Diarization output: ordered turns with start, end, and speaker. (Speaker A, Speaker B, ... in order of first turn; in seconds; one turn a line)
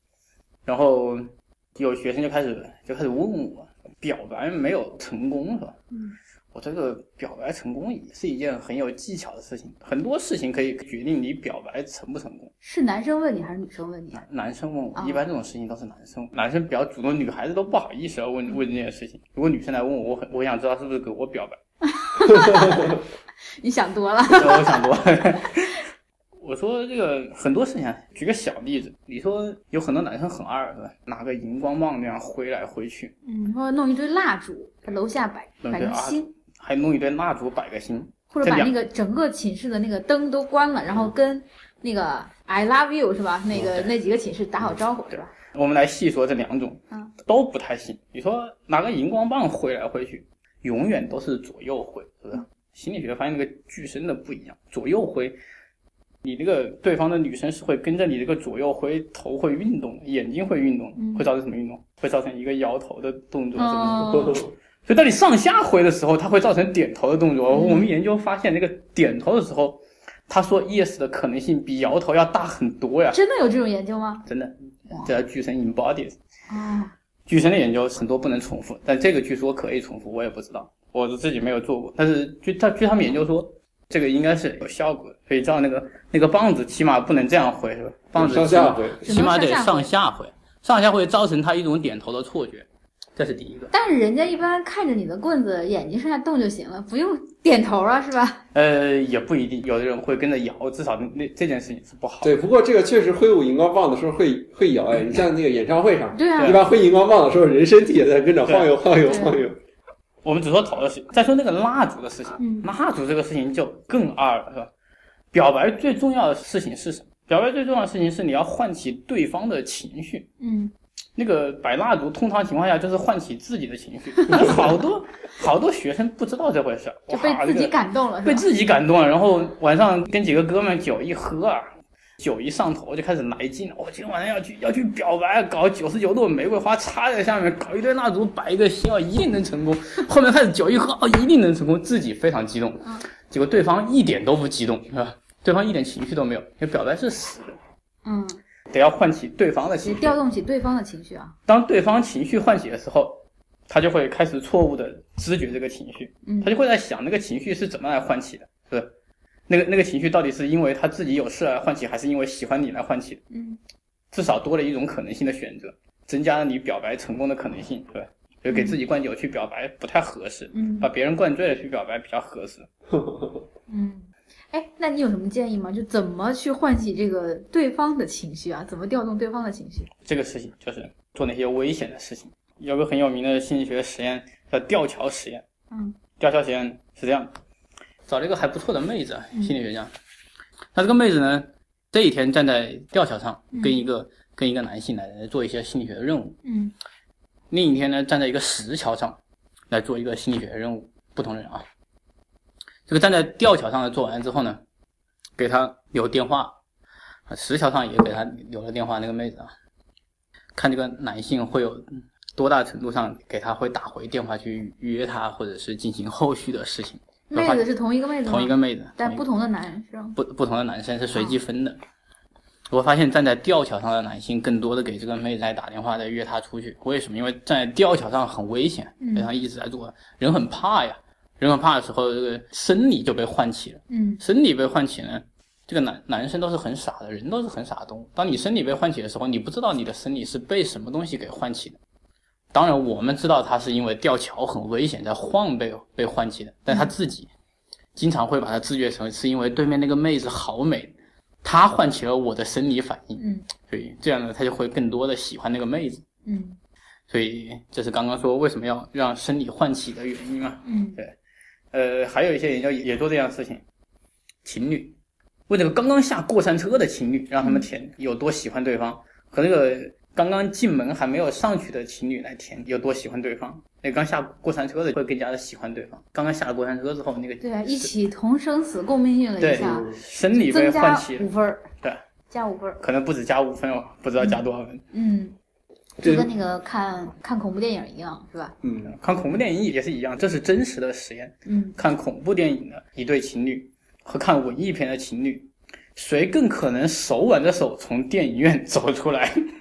Speaker A: 0.7-5.8
Speaker B: 5.9-6.2
Speaker A: 6.5-12.5
Speaker B: 12.6-14.2
Speaker A: 14.2-21.6
Speaker B: 14.9-15.2
Speaker B: 21.9-23.0
Speaker B: 23.6-24.9
Speaker A: 24.3-25.8
Speaker A: 26.4-33.1
Speaker B: 33.2-36.3
Speaker A: 35.6-38.7
Speaker B: 38.3-45.3
Speaker A: 43.6-43.9
Speaker A: 45.3-55.4
Speaker A: 56.2-73.2
Speaker B: 61.0-61.2
Speaker B: 63.6-64.5
Speaker B: 67.5-67.9
Speaker B: 73.1-74.3
Speaker A: 74.3-76.2
Speaker B: 76.5-76.9
Speaker A: 77.3-93.7
Speaker C: 88.2-89.1
Speaker B: 89.0-89.9
Speaker B: 93.7-98.4
Speaker A: 98.5-102.4
Speaker C: 102.2-109.6
Speaker B: 106.2-106.6
Speaker A: 106.4-106.6
Speaker A: 108.5-108.7
Speaker B: 109.1-109.4
Speaker A: 110.2-114.7
Speaker B: 112.4-112.7
Speaker A: 115.3-120.3
Speaker B: 120.4-120.7
Speaker A: 121.2-131.7
Speaker B: 127.1-128.5
Speaker A: 132.2-147.6
Speaker B: 148.1-148.4
Speaker A: 148.7-150.2
Speaker B: 149.8-151.4
Speaker A: 151.5-158.9
Speaker B: 156.2-156.5
Speaker A: 159.5-163.2
Speaker B: 163.3-163.6
Speaker A: 164.1-172.7
Speaker B: 168.5-168.8
Speaker B: 170.5-170.9
Speaker C: 172.9-173.4
Speaker B: 173.7-179.9
Speaker A: 180.1-185.4
Speaker B: 185.7-186.0
Speaker A: 186.2-187.3
Speaker A: 188.1-189.9
Speaker A: 190.7-196.4
Speaker B: 193.5-193.8
Speaker B: 196.4-196.7
Speaker A: 197.5-199.2
Speaker A: 199.7-201.7
Speaker A: 202.9-204.6
Speaker A: 205.4-206.6
Speaker A: 207.3-209.5
Speaker A: 210.6-217.6
Speaker B: 217.3-220.2
Speaker A: 218.2-219.2
Speaker A: 220.2-221.8
Speaker A: 222.7-241.8
Speaker B: 229.0-229.3
Speaker B: 233.9-234.2
Speaker A: 242.5-247.3
Speaker A: 248.0-256.0
Speaker B: 253.2-253.5
Speaker B: 256.3-256.6
Speaker A: 257.1-261.1
Speaker B: 260.7-261.0
Speaker A: 261.7-263.6
Speaker A: 264.4-265.0
Speaker A: 265.5-277.9
Speaker B: 277.4-281.7
Speaker A: 279.4-281.3
Speaker C: 279.6-280.0
Speaker B: 282.3-282.8
Speaker A: 282.8-284.8
Speaker B: 284.9-285.4
Speaker C: 286.0-286.3
Speaker B: 286.0-288.6
Speaker C: 288.6-288.9
Speaker A: 288.8-299.4
Speaker B: 291.5-291.8